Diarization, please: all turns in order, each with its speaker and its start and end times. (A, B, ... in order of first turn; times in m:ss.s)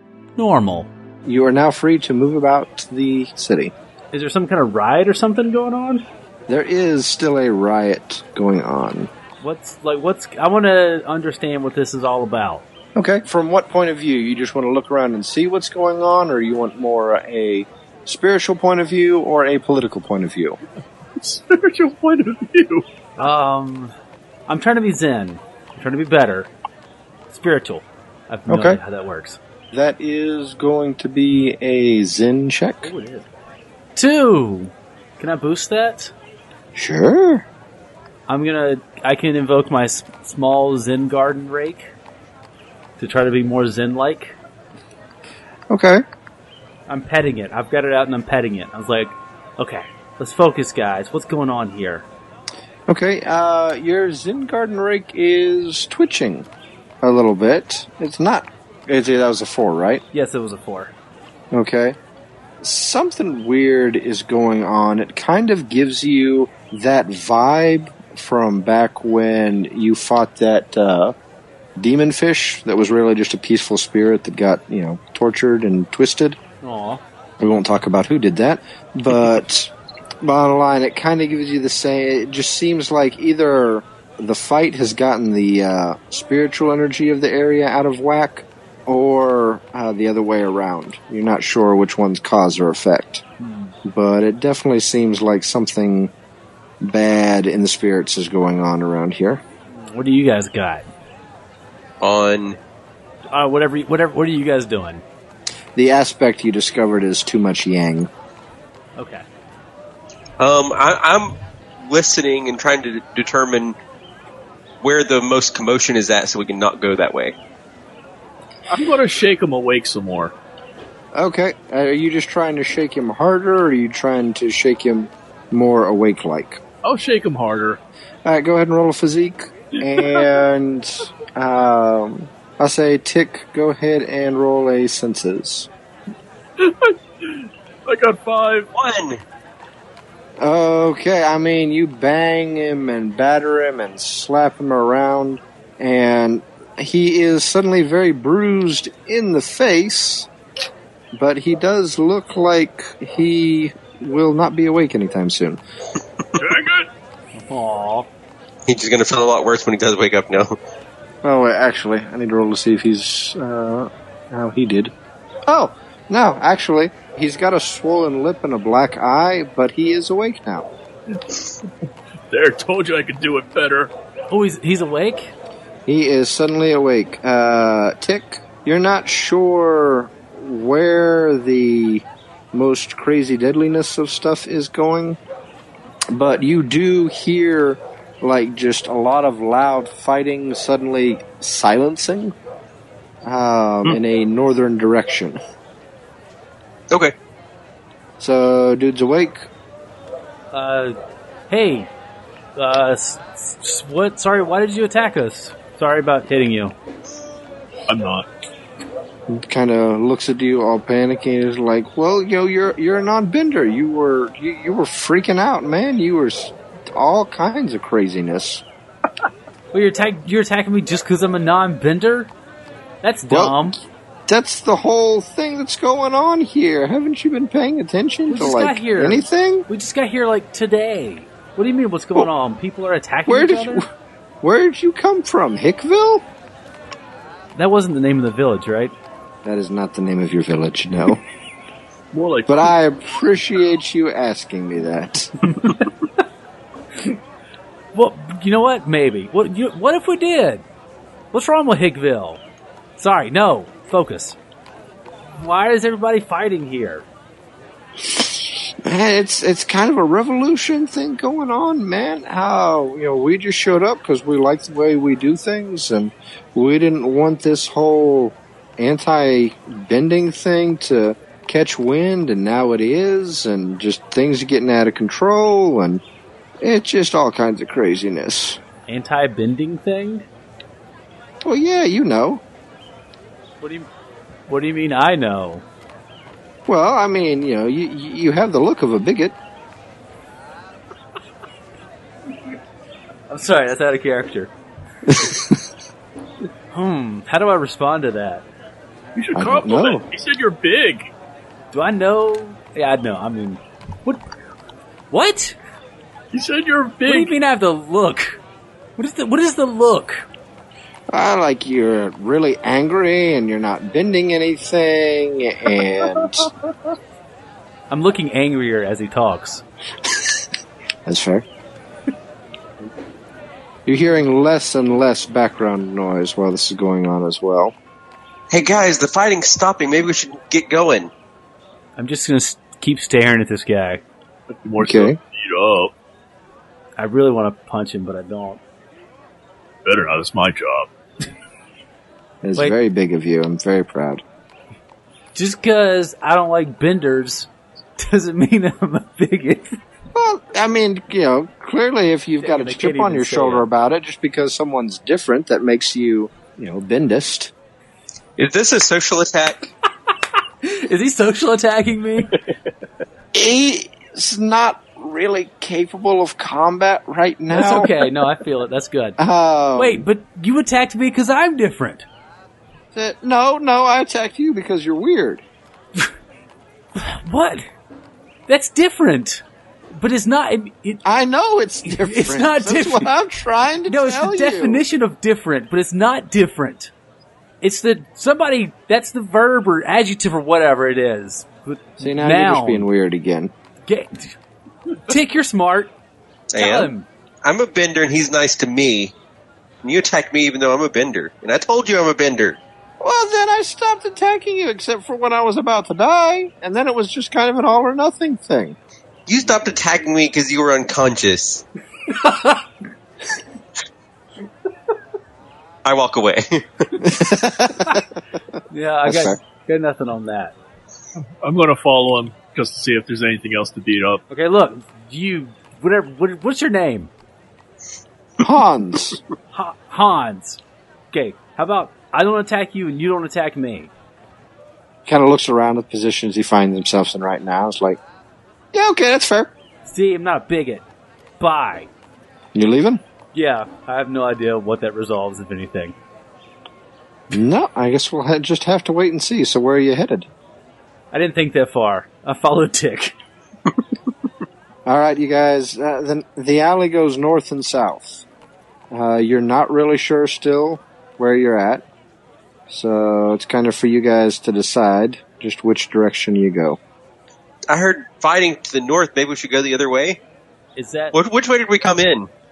0:00.4-0:00.9 A
0:01.2-0:03.7 B
0:04.1-0:06.0 A
0:06.5-0:09.1 B
0:09.4-0:12.6 A
0:13.0-0:20.6 B
0:21.2-0:22.8 C
0:23.2-0:23.9 A
0:24.5-0:26.5 A
0:27.3-0:29.4 A
0:28.5-0:28.8 B
0:29.7-0:32.9 B
0:32.8-0:33.3 A
0:34.0-0:36.1 A
0:36.8-0:37.5 B
0:38.3-0:41.9 A
0:43.0-0:44.4 A
0:45.7-0:46.0 B
0:46.9-0:52.1 A
0:52.9-0:56.5 B
0:57.0-1:00.0 B
1:00.1-1:00.9 A
1:01.5-1:02.0 B
1:02.6-1:11.2 B
1:11.8-1:16.4 B
1:16.6-1:17.0 A
1:17.4-1:33.2 B
1:33.4-1:33.7 A
1:33.8-1:36.1 B
1:36.8-1:39.4 B
1:39.7-1:40.9 A
1:42.0-1:42.6 D
1:43.3-1:45.0 A
1:45.8-1:48.1 B
1:49.0-1:49.2 A
1:50.4-1:53.8 D
1:54.8-1:57.4 D
1:58.7-2:00.3 C
2:01.1-2:06.6 B
2:06.8-2:07.8 C
2:08.2-2:15.7 B
2:09.8-2:10.3 C
2:16.6-2:18.7 C
2:18.7-2:19.2 D
2:20.4-2:30.3 B
2:31.2-2:35.6 B
2:36.4-2:36.9 C
2:37.4-2:38.1 A
2:38.7-2:40.6 D
2:41.2-2:44.9 B
2:45.5-2:50.7 B
2:51.1-2:51.7 C
2:52.3-2:53.9 C
2:54.3-2:55.3 A
2:55.9-3:05.2 B
3:06.1-3:12.3 B
3:13.2-3:15.4 B
3:18.2-3:19.5 B
3:20.5-3:21.0 A
3:21.5-3:21.9 A
3:22.6-3:26.8 A
3:27.9-3:28.3 C
3:29.3-3:38.6 B
3:39.7-3:42.3 A
3:43.0-3:43.8 A
3:43.3-3:43.6 B
3:44.3-3:49.7 B
3:48.3-3:53.8 A
3:53.3-3:53.8 B
3:54.4-3:56.2 B
3:57.6-3:58.9 A
3:59.4-4:01.2 B
4:02.1-4:02.7 C
4:02.5-4:05.3 B
4:07.9-4:10.6 A
4:11.3-4:12.4 A
4:13.0-4:14.4 A
4:15.4-4:17.1 A
4:18.8-4:36.0 B
4:36.6-4:38.6 B
4:38.9-4:40.3 A
4:41.4-4:42.4 B
4:43.6-4:43.9 A
4:44.5-4:45.6 A
4:46.7-4:49.4 B
4:53.3-4:54.5 A
4:55.1-4:55.4 B
4:56.7-4:58.4 A
4:59.2-5:01.1 C
4:59.4-5:00.1 B
5:01.7-5:04.2 A
5:05.1-5:05.6 A
5:06.3-5:07.3 C
5:07.1-5:08.4 A
5:09.0-5:10.2 A
5:11.1-5:16.5 B
5:17.9-5:19.6 A
5:21.1-5:21.4 B
5:23.9-5:27.7 B
5:28.5-5:31.1 D
5:32.0-5:34.0 A
5:34.5-5:35.9 C
5:34.8-5:35.2 B
5:37.0-5:38.6 A
5:39.8-5:40.9 C
5:42.4-5:44.2 B
5:45.4-5:49.8 A
5:50.2-5:57.5 B
5:52.4-5:53.7 A
5:58.4-5:59.7 D
6:00.6-6:02.3 A
6:03.3-6:08.0 B
6:07.5-6:09.2 A
6:09.2-6:10.0 B
6:09.8-6:12.1 A
6:12.9-6:15.4 B
6:17.0-6:17.7 A
6:18.5-6:19.4 A
6:20.0-6:21.0 A
6:21.0-6:24.8 B
6:21.8-6:23.1 A
6:23.9-6:26.9 A
6:27.6-6:32.9 A
6:32.0-6:33.5 B
6:33.9-6:34.4 A
6:35.0-6:35.9 A
6:36.5-6:36.9 D
6:36.6-6:37.1 A
6:37.4-6:39.1 D
6:39.8-6:42.6 D
6:43.0-6:48.8 B
6:49.3-6:51.6 D
6:52.2-6:52.6 A
6:55.8-6:56.9 D
6:57.0-6:58.1 B
6:58.7-7:00.6 A
6:59.1-6:59.4 B
7:01.2-7:04.2 C
7:04.3-7:07.1 A
7:08.4-7:09.2 B
7:09.5-7:10.6 A
7:11.1-7:13.9 A
7:15.1-7:18.0 B
7:18.7-7:19.5 B
7:19.8-7:20.8 A
7:21.4-7:21.9 A
7:22.5-7:23.0 B
7:23.3-7:26.0 A
7:27.3-7:30.3 B
7:31.1-7:33.2 A
7:34.9-7:38.2 B
7:38.9-7:41.8 B
7:42.7-7:46.8 B
7:47.7-7:50.2 D
7:50.8-7:51.2 A
7:51.1-7:52.3 D